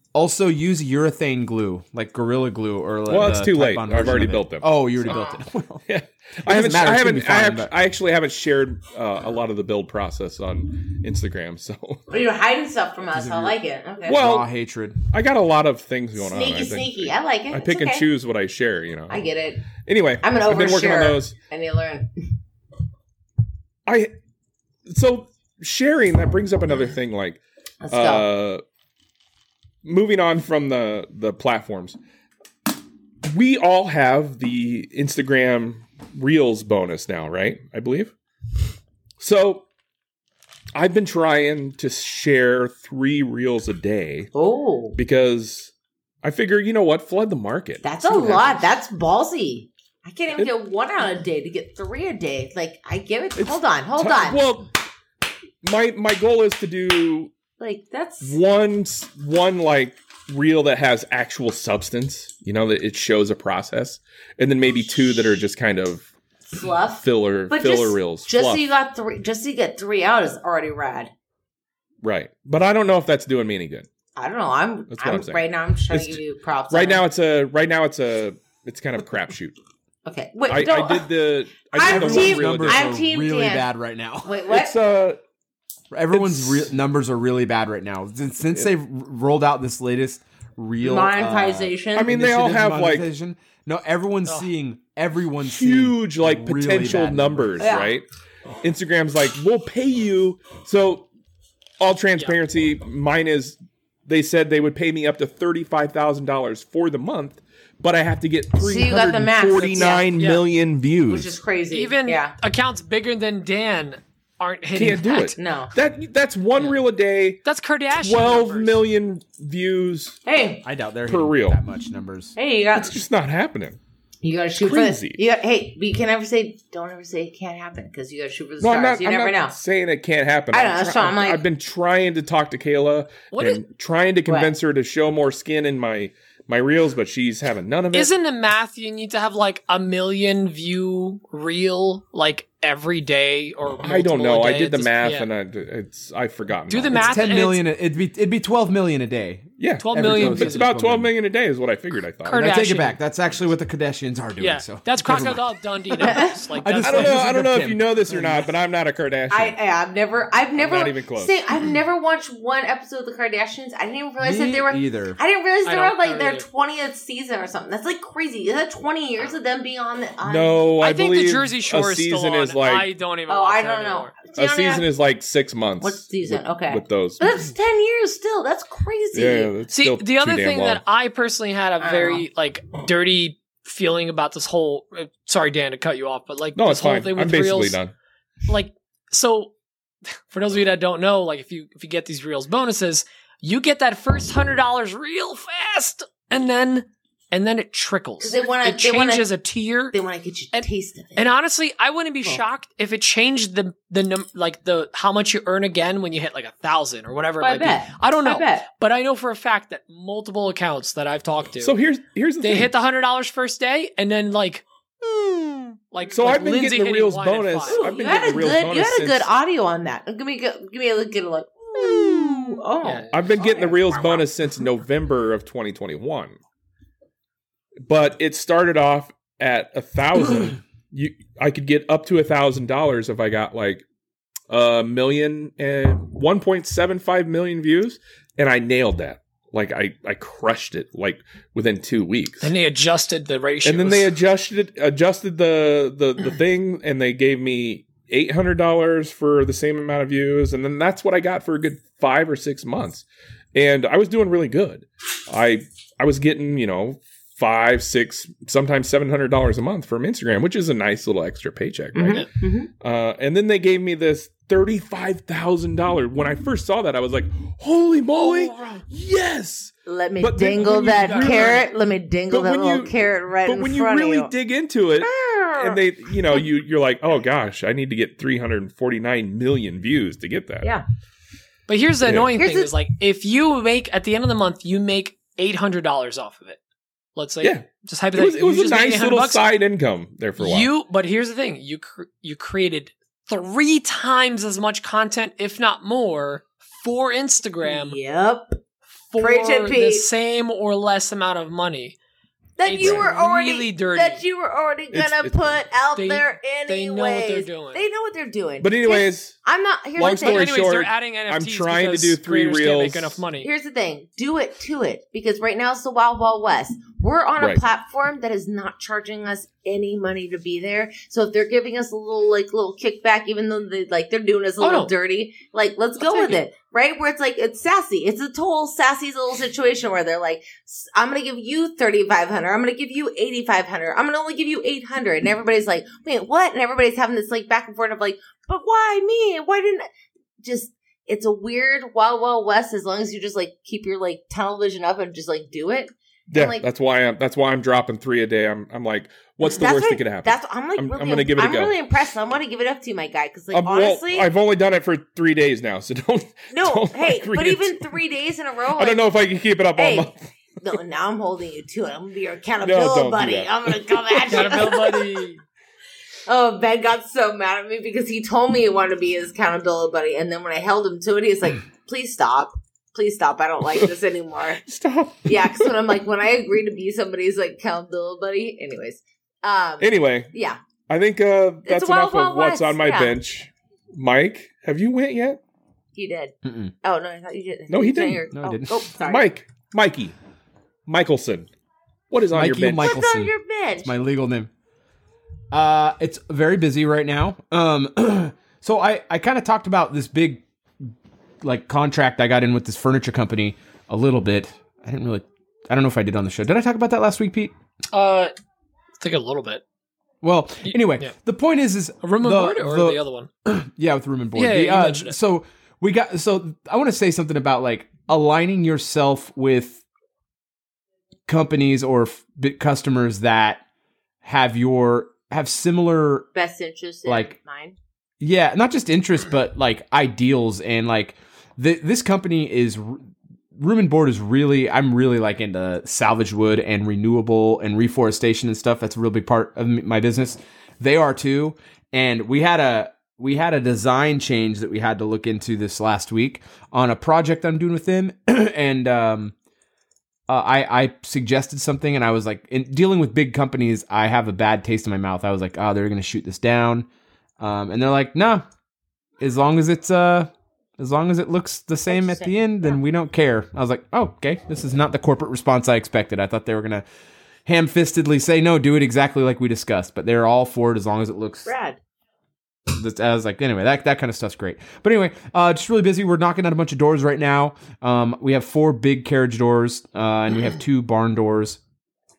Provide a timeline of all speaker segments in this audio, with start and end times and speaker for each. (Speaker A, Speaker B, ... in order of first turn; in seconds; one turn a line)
Speaker A: 0.1-5.8
Speaker B: 3.1-5.1
Speaker C: 5.0-5.4
Speaker B: 5.9-12.0
Speaker A: 6.4-7.7
Speaker C: 12.1-14.2
Speaker A: 13.1-15.0
Speaker B: 14.0-14.5
Speaker B: 15.1-19.2
Speaker C: 16.2-18.1
Speaker C: 19.1-19.7
Speaker B: 19.8-21.4
Speaker C: 20.2-22.2
Speaker B: 23.9-24.1
Speaker B: 24.9-28.6
Speaker C: 27.8-28.3
Speaker B: 29.8-32.0
Speaker B: 33.2-38.1
Speaker B: 39.2-39.7
Speaker B: 40.8-44.3
Speaker C: 44.3-45.0
Speaker B: 45.0-45.7
Speaker B: 46.2-48.7
Speaker C: 47.8-54.4
Speaker B: 53.4-54.7
Speaker B: 55.6-57.3
Speaker C: 57.6-58.4
Speaker B: 58.2-66.1
Speaker C: 66.5-71.1
Speaker B: 67.0-68.6
Speaker B: 72.0-73.9
Speaker C: 74.2-77.0
Speaker B: 74.9-79.6
Speaker C: 80.1-81.1
Speaker B: 80.5-82.9
Speaker C: 81.7-83.7
Speaker A: 81.8-84.4
Speaker C: 84.2-84.7
Speaker B: 84.5-85.2
Speaker A: 85.9-97.7
Speaker B: 86.1-86.7
Speaker C: 90.8-92.1
Speaker B: 92.0-93.0
Speaker B: 95.4-98.1
Speaker C: 97.6-97.9
Speaker B: 98.6-101.1
Speaker B: 101.8-111.3
Speaker C: 108.6-110.1
Speaker D: 109.6-110.5
Speaker C: 111.1-112.3
Speaker D: 111.7-115.4
Speaker B: 114.8-117.4
Speaker C: 115.4-115.7
Speaker D: 117.4-118.8
Speaker B: 117.9-120.2
Speaker C: 120.3-120.7
Speaker A: 120.6-122.4
Speaker B: 121.1-121.6
Speaker C: 122.4-123.0
Speaker B: 122.7-123.8
Speaker C: 124.2-129.6
Speaker B: 124.6-125.2
Speaker B: 128.6-138.1
Speaker C: 130.5-131.4
Speaker D: 133.3-133.6
Speaker C: 134.3-134.5
Speaker D: 137.9-145.3
Speaker B: 143.8-147.2
Speaker D: 146.7-147.6
Speaker A: 146.9-151.1
Speaker B: 149.6-152.6
Speaker D: 149.8-150.7
Speaker D: 152.2-152.9
Speaker A: 152.3-158.5
Speaker D: 154.4-157.2
Speaker C: 156.0-156.3
Speaker B: 156.8-159.6
Speaker C: 159.3-170.7
Speaker B: 160.6-161.4
Speaker A: 164.2-165.2
Speaker D: 165.7-166.4
Speaker B: 170.2-172.9
Speaker D: 170.8-174.2
Speaker C: 173.3-174.9
Speaker B: 174.3-177.3
Speaker C: 175.8-179.5
Speaker B: 179.1-180.8
Speaker D: 179.7-187.8
Speaker C: 181.8-182.2
Speaker B: 186.6-187.9
Speaker D: 188.5-189.5
Speaker D: 190.3-199.9
Speaker C: 198.2-199.3
Speaker C: 199.9-201.2
Speaker D: 200.5-211.8
Speaker C: 207.4-208.7
Speaker B: 211.6-212.7
Speaker D: 212.4-214.6
Speaker D: 215.9-217.9
Speaker B: 216.1-219.3
Speaker C: 217.7-224.3
Speaker D: 222.8-223.1
Speaker B: 223.1-226.4
Speaker B: 227.9-233.8
Speaker B: 234.5-242.5
Speaker D: 242.4-244.2
Speaker B: 243.6-262.3
Speaker C: 261.9-262.7
Speaker B: 262.8-271.7
Speaker C: 269.9-274.3
Speaker D: 270.6-271.7
Speaker B: 272.3-280.7
Speaker C: 275.0-276.4
Speaker D: 281.7-286.6
Speaker B: 282.0-282.3
Speaker C: 282.4-282.7
Speaker D: 287.2-289.4
Speaker B: 287.4-290.7
Speaker D: 290.4-298.0
Speaker C: 297.6-298.6
Speaker D: 299.1-302.0
Speaker C: 299.2-300.1
Speaker C: 302.6-310.5
Speaker D: 302.6-304.2
Speaker B: 302.8-303.1
Speaker B: 304.9-305.5
Speaker D: 306.0-307.8
Speaker B: 308.6-309.4
Speaker B: 310.0-313.2
Speaker D: 310.0-313.5
Speaker C: 313.4-339.9
Speaker D: 324.6-324.9
Speaker D: 326.0-326.4
Speaker C: 340.4-346.7
Speaker B: 346.3-351.8
Speaker C: 349.4-354.3
Speaker B: 353.5-357.9
Speaker C: 356.5-359.0
Speaker B: 358.8-360.2
Speaker C: 359.8-365.1
Speaker B: 362.6-363.8
Speaker D: 364.3-365.4
Speaker C: 366.3-374.6
Speaker B: 374.6-375.7
Speaker C: 375.3-380.6
Speaker B: 379.8-380.3
Speaker B: 380.9-385.4
Speaker C: 381.7-383.2
Speaker C: 385.9-389.3
Speaker A: 386.4-386.7
Speaker B: 387.7-388.2
Speaker A: 388.3-388.9
Speaker B: 389.0-390.1
Speaker B: 390.9-391.5
Speaker B: 392.1-393.0
Speaker A: 392.3-394.5
Speaker C: 392.8-393.9
Speaker A: 395.5-407.5
Speaker D: 407.9-408.3
Speaker D: 409.0-409.6
Speaker A: 410.2-419.8
Speaker D: 410.6-411.1
Speaker D: 412.0-413.3
Speaker D: 414.4-415.1
Speaker A: 421.3-423.6
Speaker A: 424.2-426.3
Speaker C: 426.4-427.8
Speaker A: 427.1-427.4
Speaker A: 428.2-449.4
Speaker A: 450.3-456.9
Speaker A: 457.4-458.4
Speaker A: 459.2-466.8
Speaker C: 461.9-462.3
Speaker A: 467.5-471.5
Speaker C: 471.5-471.8
Speaker A: 472.7-481.6